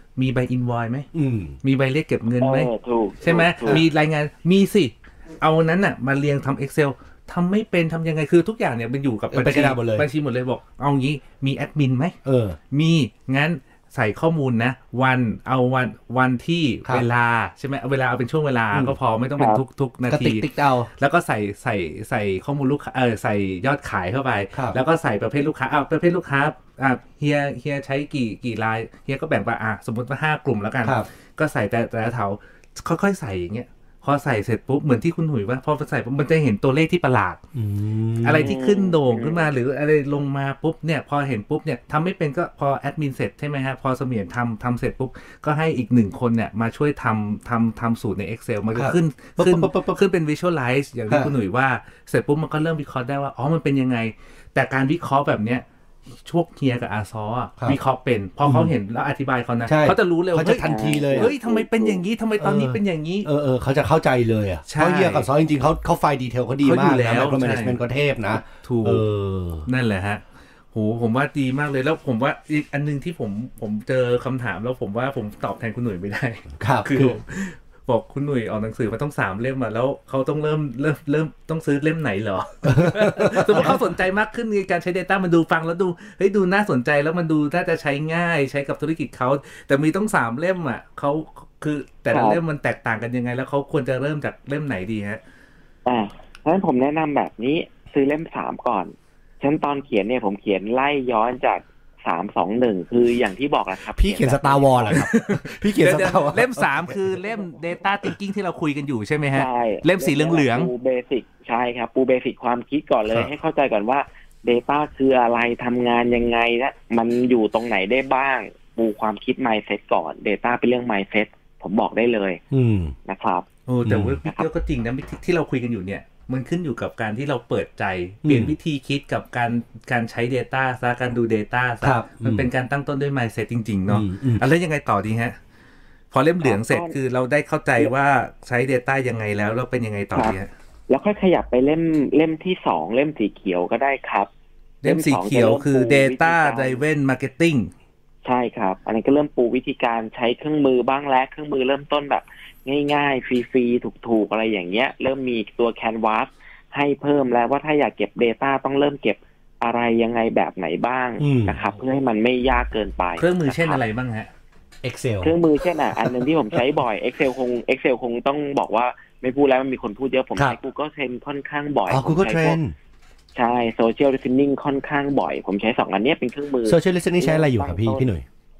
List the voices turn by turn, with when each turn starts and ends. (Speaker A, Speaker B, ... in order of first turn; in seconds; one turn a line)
Speaker A: 0.2-1.1
Speaker B: 1.1-1.6
Speaker A: 1.6-12.2
Speaker C: 2.4-3.8
Speaker B: 9.3-10.1
Speaker B: 12.2-12.6
Speaker A: 12.7-37.4
Speaker B: 20.1-20.9
Speaker B: 24.5-24.8
Speaker B: 37.5-38.5
Speaker A: 38.2-55.6
Speaker C: 38.4-39.5
Speaker B: 48.8-49.9
Speaker A: 56.2-63.3
Speaker B: 58.5-58.7
Speaker B: 59.7-61.3
Speaker C: 60.6-62.0
Speaker B: 62.4-69.7
Speaker A: 64.7-65.3
Speaker A: 66.6-67.8
Speaker A: 68.5-69.0
Speaker A: 69.7-95.2
Speaker B: 76.6-77.2
Speaker B: 82.7-83.8
Speaker C: 92.1-92.4
Speaker C: 95.9-105.1
Speaker B: 103.9-107.1
Speaker A: 105.0-110.7
Speaker C: 109.3-122.4
Speaker B: 122.5-123.0
Speaker C: 123.1-123.5
Speaker A: 123.7-135.4
Speaker B: 123.9-124.2
Speaker B: 128.2-128.5
Speaker B: 131.8-132.5
Speaker B: 133.9-134.4
Speaker A: 136.1-140.5
Speaker C: 136.4-137.0
Speaker C: 140.9-144.3
Speaker A: 144.8-147.7
Speaker C: 144.8-146.8
Speaker C: 148.2-163.8
Speaker B: 161.2-161.6
Speaker A: 163.2-164.3
Speaker B: 164.8-165.4
Speaker C: 165.2-172.6
Speaker B: 165.9-166.6
Speaker B: 171.9-172.8
Speaker C: 173.3-178.0
Speaker B: 176.7-178.2